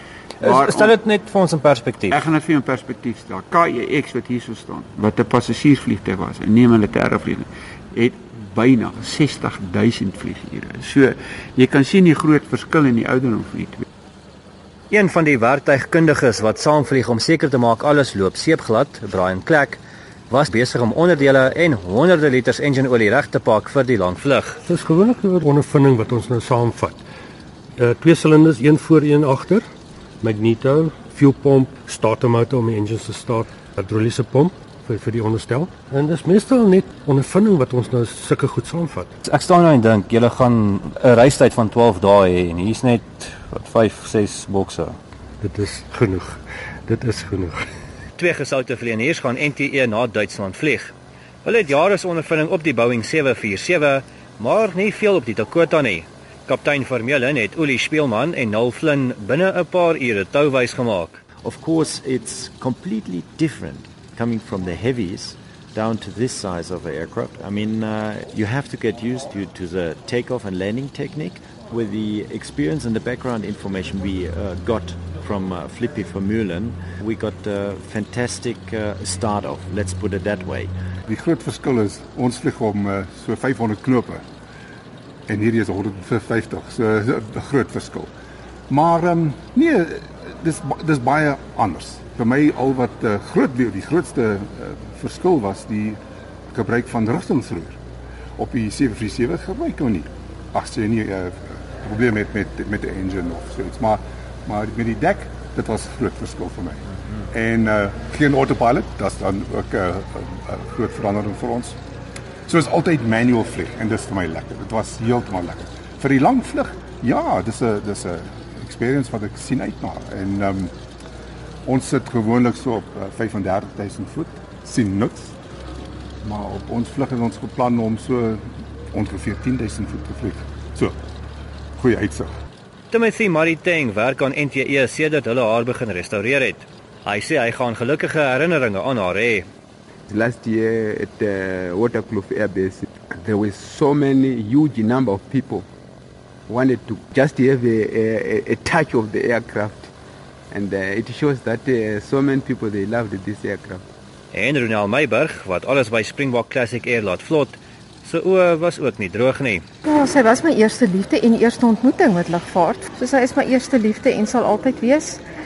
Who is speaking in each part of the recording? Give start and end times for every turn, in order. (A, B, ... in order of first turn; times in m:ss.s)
0:00.4-0:02.2 A
0:00.4-0:00.9 B
0:02.1-0:13.8 B
0:14.9-0:24.6 A
0:24.7-0:27.0 C
0:27.8-0:29.6 C
0:30.2-0:39.1 C
0:39.2-0:45.0 A
0:45.4-0:47.7 C
0:48.2-1:01.2 A
1:01.4-1:20.7 D
1:21.1-1:24.2 E
1:25.3-1:28.1 E
1:28.7-1:36.0 E
1:36.5-1:37.8 E
1:38.4-1:51.8 E
1:52.5-2:00.7 E
2:01.6-2:05.4 E
2:06.2-2:11.0 E
2:11.8-2:12.3 E
2:12.9-2:19.5 A
2:20.1-2:25.7 F
2:26.5-2:29.9 F
2:30.5-2:33.8 F
2:34.3-2:39.6 A
2:39.8-2:45.2 G